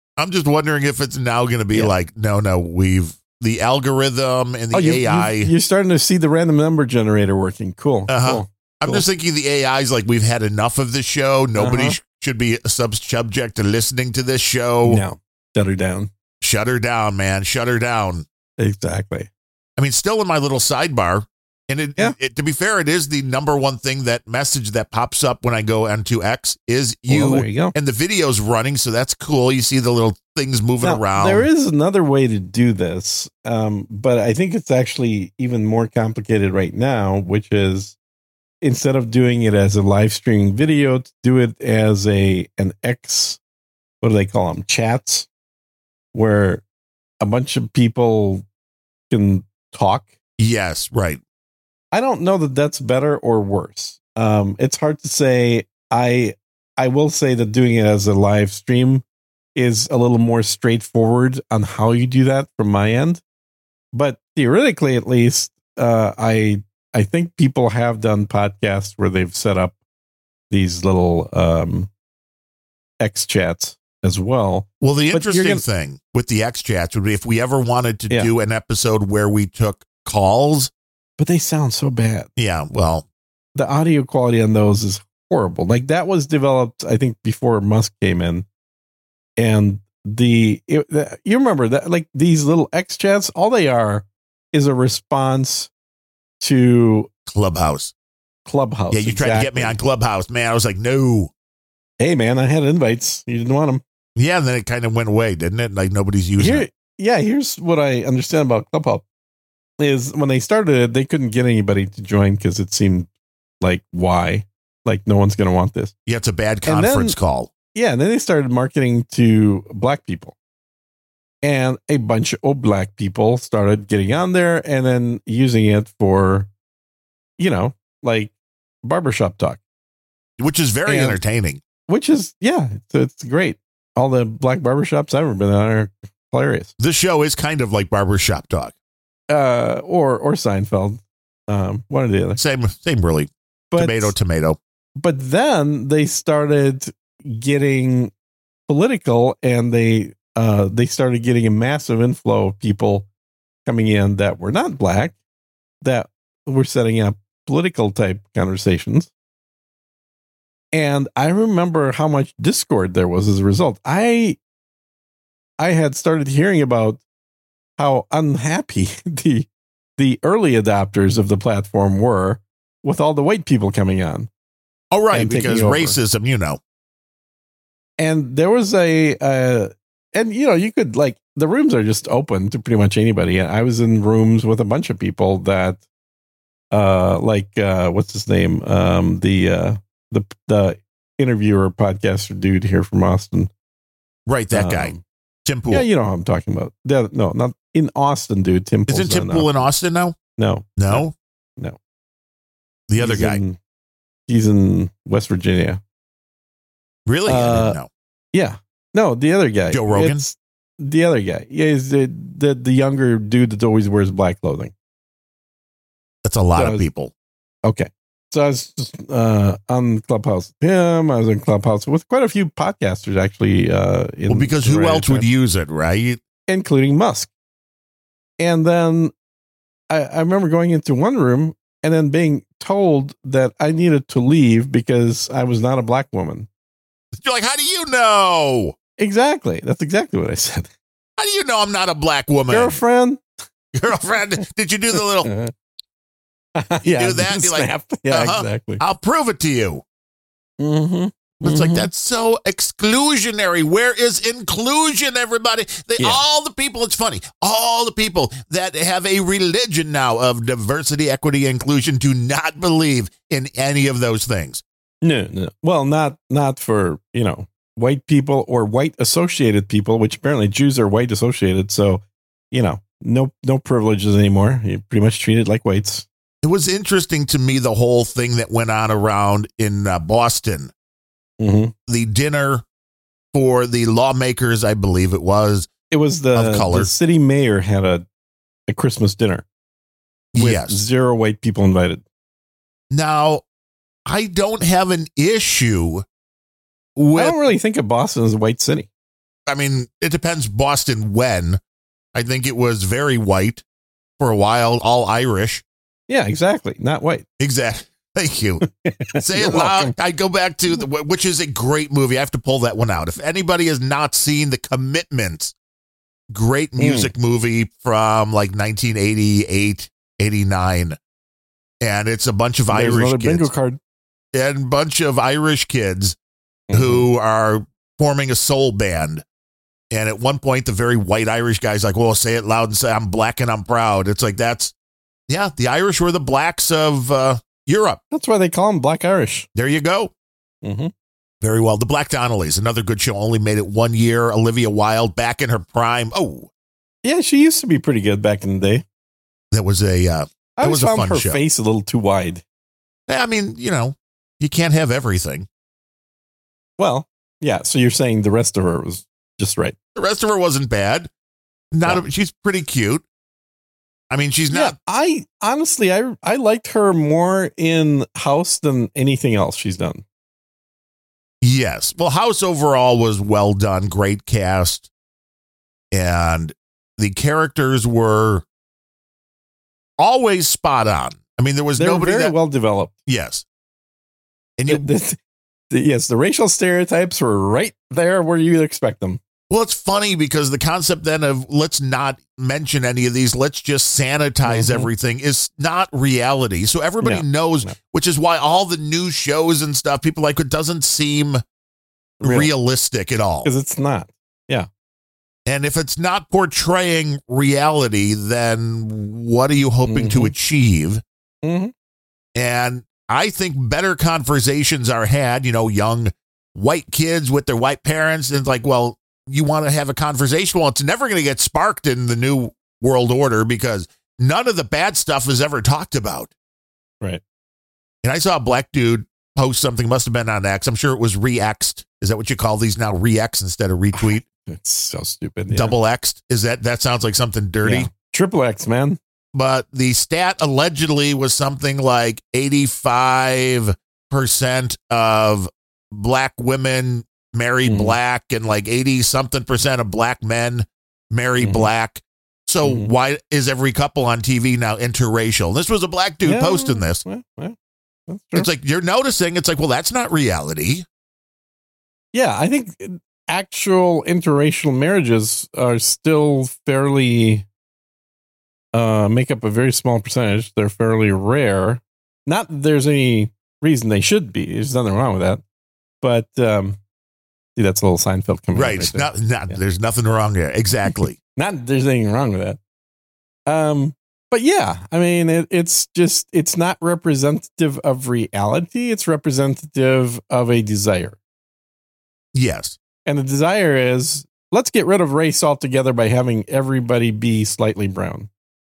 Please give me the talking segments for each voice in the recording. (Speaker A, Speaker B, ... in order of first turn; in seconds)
Speaker A: 0.2-5.5, 8.1-15.0, 16.4-18.2, 19.8-31.4, 50.4-51.2, 74.8-80.7, 82.4-83.0, 97.3-97.9, 98.9-101.3, 104.2-106.6, 116.0-117.5, 130.4-131.6, 136.8-138.7, 142.4-144.6, 174.9-176.6, 194.3-194.9, 195.4-195.8, 198.9-200.2, 200.8-201.1, 202.9-203.4, 207.1-207.9, 209.7-210.2, 216.2-217.1, 224.3-226.2, 237.1-238.7, 241.2-242.8, 243.7-245.3, 247.0-249.8, 251.4-264.6, 276.4-280.7, 281.9-282.6, 283.3-285.7, 286.3-286.9, 290.3-290.8, 292.9-293.4, 294.1-296.0, 296.9-297.4, 299.5-301.6, 302.1-303.6, 304.2-305.6, 307.4-308.6, 309.1-315.5, 316.3-321.0, 321.8-323.5, 324.3-326.2, 326.7-329.2, 329.9-334.7, 335.3-338.0, 339.5-340.1, 341.4-346.5, 349.5-351.4, 353.1-355.5, 359.9-361.1, 361.7-363.0, 364.1-364.7, 371.4-374.9, 375.9-378.4, 380.0-382.3, 383.1-383.4, 384.6-384.9, 389.5-401.4, 402.2-403.5, 405.4-411.0, 412.3-426.3, 428.0-434.2, 435.5-437.9, 439.3-457.0, 458.3-460.9, 478.5-481.1, 492.3-492.8
Speaker B: 4.7-9.0, 11.6-12.0, 14.8-16.1, 18.6-19.3, 27.1-27.7, 30.8-38.0, 38.6-43.4, 44.0-45.3, 46.1-46.6, 47.2-48.5, 49.1-50.1, 51.9-63.2, 63.9-69.8, 70.5-71.9, 73.0-75.6, 81.2-82.3, 83.5-88.5, 89.4-95.7, 96.4-97.1, 98.5-99.8, 102.0-103.8, 106.4-109.0, 109.8-113.1, 113.6-115.9, 116.6-117.2, 117.7-120.3, 121.4-126.5, 127.4-129.6, 130.8-131.2, 131.9-136.7, 139.3-142.4, 143.7-144.1, 145.0-148.1, 148.7-153.1, 153.7-155.2, 155.8-159.1, 160.7-164.4, 165.6-167.0, 167.8-174.3, 175.1-176.0, 178.0-185.8, 186.7-193.5, 194.5-195.0, 195.7-199.6, 200.4-201.1, 203.0-203.6, 204.3-205.8, 207.3-207.8, 208.3-214.7, 216.6-216.9, 217.6-225.3, 226.5-227.3, 228.4-229.1, 229.9-236.5, 239.0-240.7, 242.5-243.2, 244.9-245.5, 246.6-248.8, 250.6-251.9, 256.0-256.2, 265.0-276.1, 281.4-281.7, 285.9-288.1, 288.7-289.4, 290.4-292.0, 297.1-298.9, 306.1-307.2, 308.6-309.9, 316.8-317.1, 322.7-323.8, 326.7-327.1, 338.1-339.5, 340.6-340.9, 347.0-348.8, 350.6-352.4, 356.8-359.8, 364.5-370.0, 381.8-382.9, 384.7-385.2, 385.7-389.2, 394.4-394.9, 397.0-397.8, 402.2-402.5, 403.4-404.7, 409.8-410.3, 411.4-411.7, 433.9-435.7, 437.6-439.0, 447.6-447.9, 451.4-451.7, 452.6-452.9, 456.2-457.6, 458.1-458.5, 462.1-467.4, 468.7-475.4, 476.0-476.8, 477.6-479.6, 480.9-482.6, 483.5-491.2, 493.1-498.3